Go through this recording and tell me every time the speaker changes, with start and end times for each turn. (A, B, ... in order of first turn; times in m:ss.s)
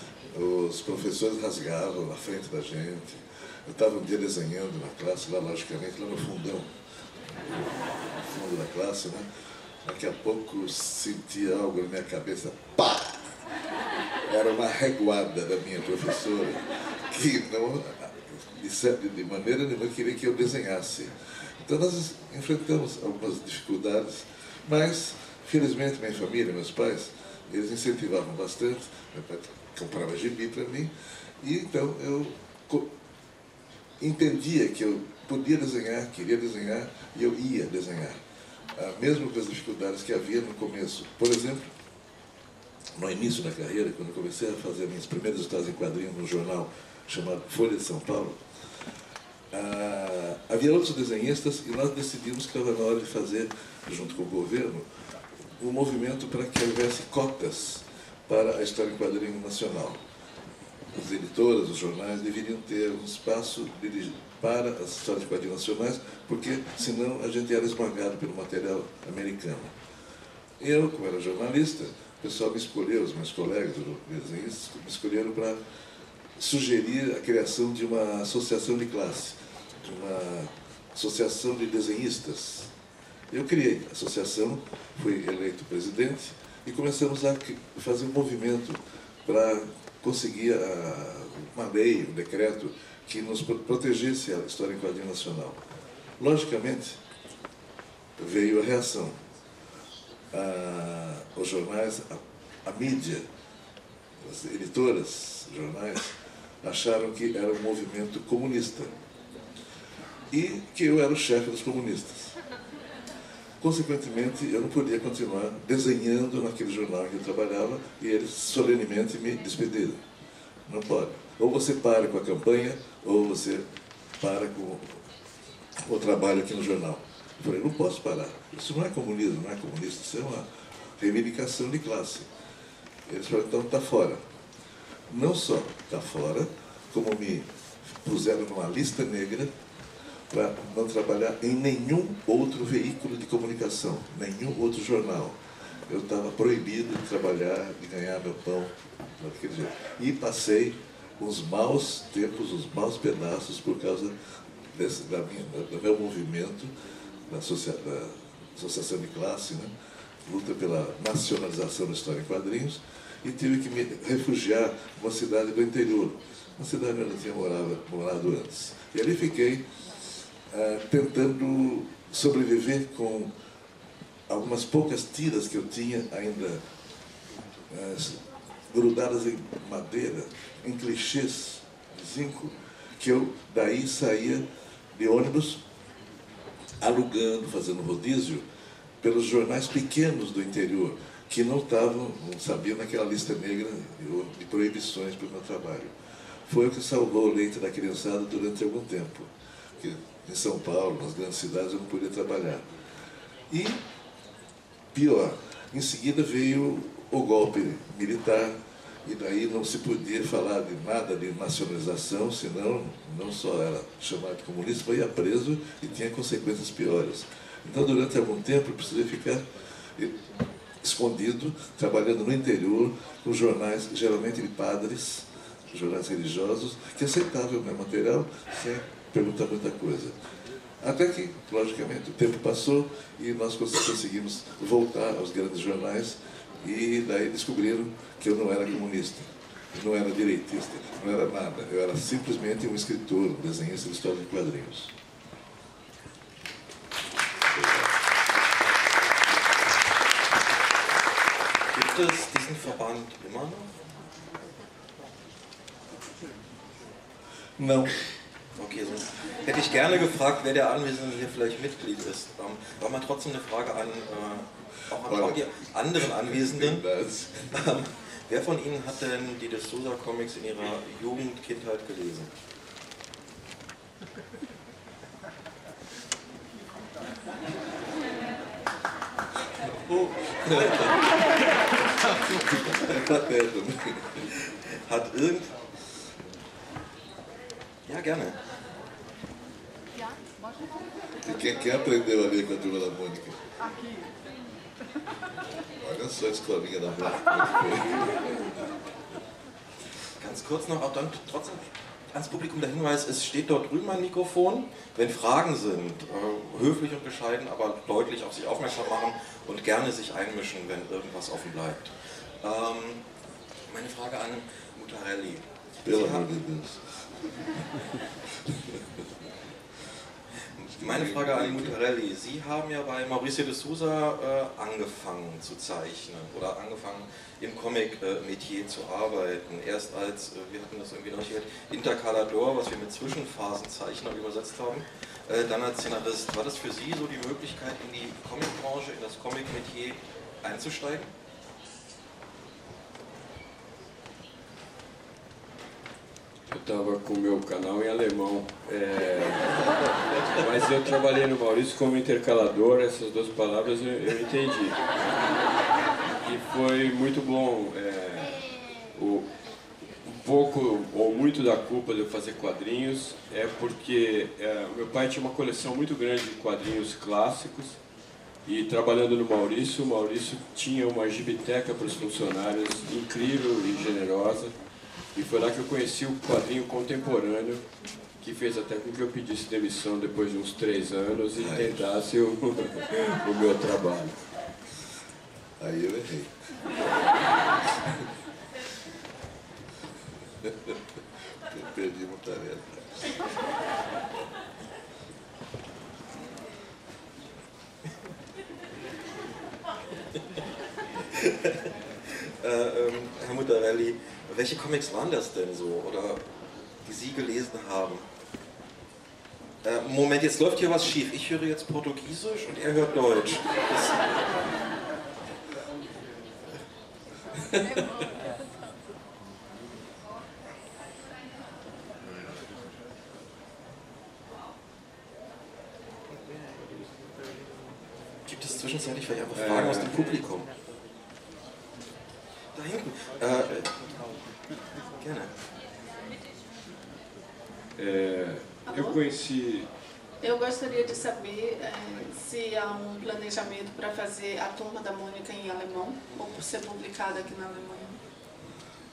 0:00.3-0:06.7 A
0:08.2-0:09.2 A
0:09.8-0:13.3 A
0:14.3-0:32.9 A
0:34.0-0:38.2 A
0:38.7-0:41.7 A
0:43.0-0:48.4 A
0:49.5-0:54.8 A
0:55.6-1:00.0 A
1:00.9-1:09.7 A
1:10.6-1:15.6 A
1:16.4-1:22.7 A
1:23.3-1:35.6 A
1:36.2-1:37.0 A
1:38.2-1:39.2 A
1:40.3-1:43.2 A
1:44.2-1:48.9 A
1:50.3-1:52.3 A
1:53.6-2:00.0 A
2:00.6-2:03.6 A
2:04.2-2:05.0 A
2:05.8-2:10.4 A
2:11.0-2:12.3 A
2:13.1-2:14.2 A
2:15.1-2:19.5 A
2:20.3-2:34.1 A
2:34.7-2:36.7 A
2:37.2-2:39.7 A
2:40.2-2:49.6 A
2:50.5-2:53.3 A
2:54.3-2:56.6 A
2:57.7-3:05.6 A
3:06.8-3:08.4 A
3:09.0-3:15.9 A
3:16.5-3:22.6 A
3:23.5-3:23.8 A
3:24.9-3:39.4 A
3:40.8-3:50.1 A
3:50.8-4:04.9 A
4:07.4-4:07.9 A
4:11.7-4:13.7 B
4:17.6-4:17.9 A
4:18.6-4:26.8 B
4:25.1-4:25.4 A
4:26.0-4:27.5 A
4:27.5-4:32.3 B
4:40.5-4:40.8 A
4:42.4-4:44.2 A
4:44.8-4:45.5 B
4:47.8-4:48.4 B
4:51.2-4:53.4 A
4:55.8-4:58.4 A
5:00.2-5:11.9 B
5:12.4-5:13.0 B
5:13.7-5:16.2 B
5:15.8-5:16.8 A
5:20.6-5:41.1 B
5:20.8-5:21.7 A
5:46.5-5:49.7 C
5:50.2-5:54.8 C
5:56.2-5:58.4 C
5:58.9-5:59.3 C
6:00.0-6:07.8 C
6:08.4-6:14.5 C
6:15.1-6:17.6 C
6:18.2-6:24.2 C
6:21.3-6:21.8 A
6:25.6-6:26.3 A
6:30.4-6:30.7 A
6:31.5-6:33.0 A
6:42.4-6:48.0 B
6:49.6-6:54.1 B
7:08.2-7:10.5 B
7:09.3-7:10.2 C
7:12.5-7:13.8 B
7:15.0-7:15.3 B
7:17.8-7:19.7 C
7:18.7-7:19.0 D
7:20.2-7:28.0 D